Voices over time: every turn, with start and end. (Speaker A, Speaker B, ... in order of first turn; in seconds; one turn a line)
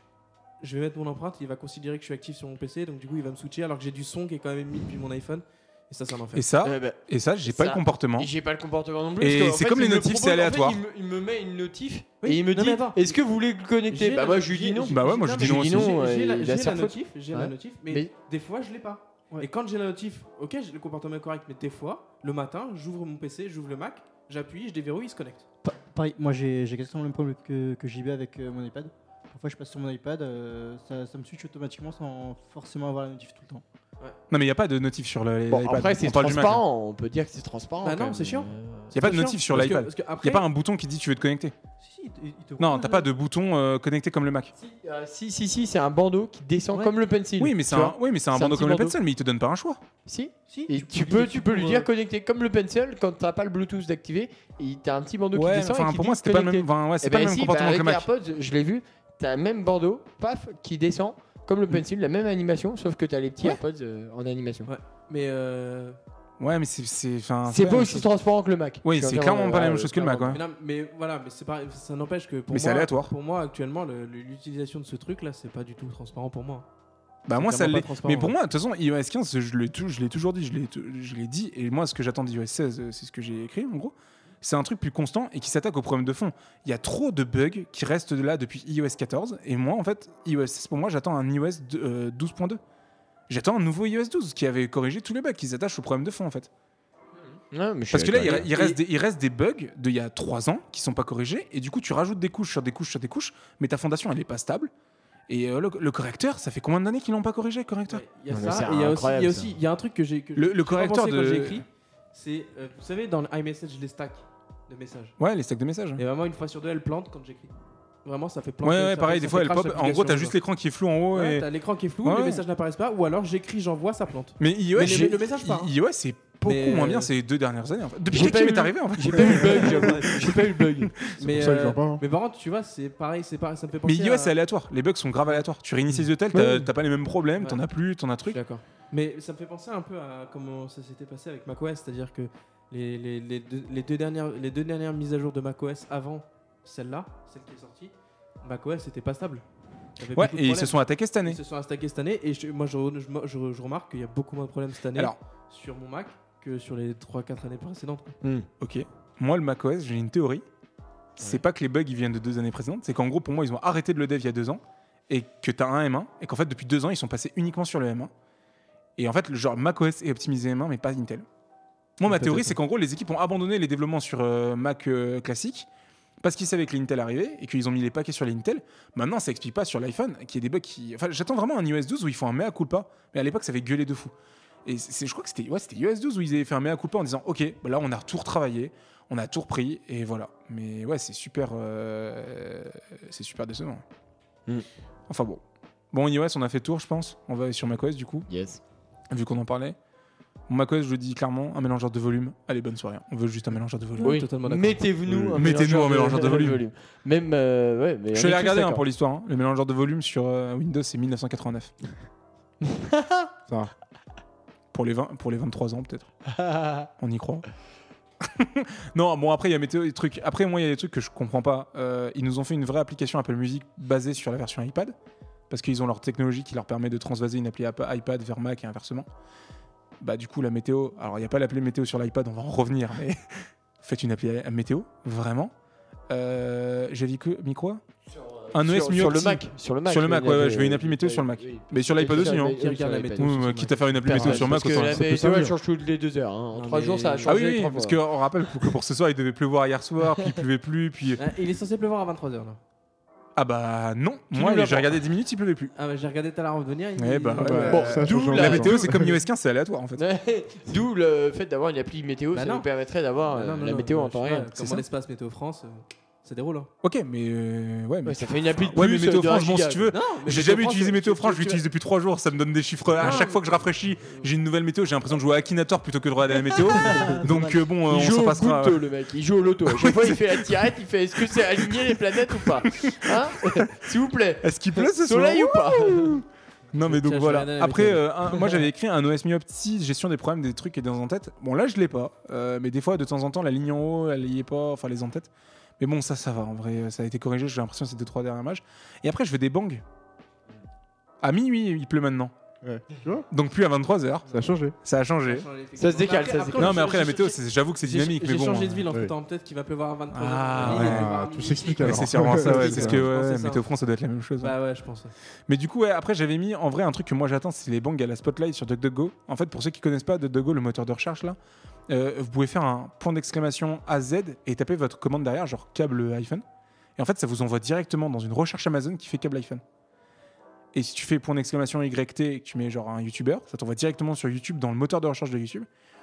Speaker A: 0.6-6.5
Speaker B: 6.3-8.3
Speaker C: 6.6-18.1
Speaker B: 9.2-10.8
Speaker A: 12.2-13.1
Speaker A: 13.9-25.4
Speaker B: 14.9-15.9
Speaker D: 25.6-33.6
Speaker B: 34.3-36.6
Speaker C: 35.5-38.8
Speaker A: 37.8-40.4
Speaker B: 38.9-41.5
Speaker D: 41.8-43.1
Speaker B: 42.6-44.5
Speaker C: 44.5-49.0
Speaker B: 47.4-49.8
Speaker C: 50.0-64.7
Speaker D: 50.5-51.9
Speaker B: 55.3-58.0
Speaker A: 64.6-66.0
Speaker B: 66.4-68.1
Speaker C: 67.5-70.4
Speaker B: 68.8-70.4
Speaker A: 70.3-76.7
Speaker B: 72.5-73.1
Speaker B: 77.3-92.6
Speaker A: 77.3-78.3
Speaker B: 93.3-96.5
Speaker C: 97.5-98.5
Speaker B: 97.9-104.7
Speaker A: 98.3-98.8
Speaker B: 105.3-108.0
Speaker A: 107.9-115.2
Speaker C: 108.3-109.5
Speaker B: 110.3-111.6
Speaker B: 115.2-116.0
Speaker A: 116.0-117.5
Speaker A: 118.0-120.3
Speaker B: 118.6-121.4
Speaker A: 121.1-125.7
Speaker B: 122.0-122.4
Speaker B: 124.4-130.6
Speaker A: 126.4-127.1
Speaker C: 128.1-131.0
Speaker A: 129.6-130.3
Speaker E: 131.0-132.0
Speaker A: 131.1-134.3
Speaker B: 133.8-138.4
Speaker A: 137.3-137.6
Speaker A: 138.3-149.4
Speaker A: 150.0-158.1
Speaker B: 150.1-151.4
Speaker C: 158.2-158.5
Speaker B: 158.6-160.4
Speaker B: 161.2-168.1
Speaker B: 169.0-171.2
Speaker B: 172.0-175.7
Speaker A: 172.1-172.5
Speaker B: 176.2-184.1
Speaker B: 184.6-193.8
Speaker B: 195.1-195.4
Speaker B: 195.9-198.3
Speaker C: 198.3-198.6
Speaker B: 199.1-199.8
Speaker B: 200.5-204.2
Speaker A: 204.0-204.8
Speaker C: 204.0-208.8
Speaker E: 205.0-205.5
Speaker B: 205.3-206.6
Speaker B: 208.1-211.7
Speaker C: 212.6-213.3
Speaker E: 213.5-213.7
Speaker B: 214.7-216.1
Speaker C: 216.3-216.9
Speaker B: 217.0-217.4
Speaker B: 218.2-224.9
Speaker B: 225.5-229.1
Speaker B: 230.0-235.5
Speaker B: 236.1-237.8
Speaker C: 238.1-243.3
Speaker B: 238.5-242.6
Speaker A: 242.2-244.0
Speaker B: 243.1-245.0
Speaker C: 244.0-248.0
Speaker E: 244.1-245.6
Speaker A: 246.5-247.4
Speaker B: 247.2-251.2
Speaker A: 251.2-252.6
Speaker B: 253.3-255.7
Speaker C: 254.3-254.6
Speaker A: 254.4-254.8
Speaker A: 255.7-259.2
Speaker B: 257.0-260.0
Speaker E: 257.4-259.1
Speaker C: 257.7-258.8
Speaker C: 259.9-264.8
Speaker A: 262.3-262.7
Speaker A: 263.2-266.7
Speaker B: 266.8-278.8
Speaker C: 268.1-269.9
Speaker A: 269.9-271.6
Speaker A: 273.0-274.3
Speaker C: 277.0-286.2
Speaker B: 279.7-280.3
Speaker B: 282.8-283.6
Speaker B: 284.4-299.8
Speaker A: 286.8-288.6
Speaker B: 301.2-302.3
Speaker E: 302.6-303.3
Speaker B: 303.3-304.3
Speaker E: 304.3-304.8
Speaker B: 304.8-305.5
Speaker A: 305.2-313.6
Speaker C: 305.8-306.8
Speaker B: 306.6-308.8
Speaker B: 310.1-311.1
Speaker E: 310.5-313.1
Speaker B: 311.8-314.5
Speaker A: 314.4-315.1
Speaker B: 315.5-321.4
Speaker B: 321.9-326.4
Speaker B: 327.0-329.6
Speaker B: 330.7-335.7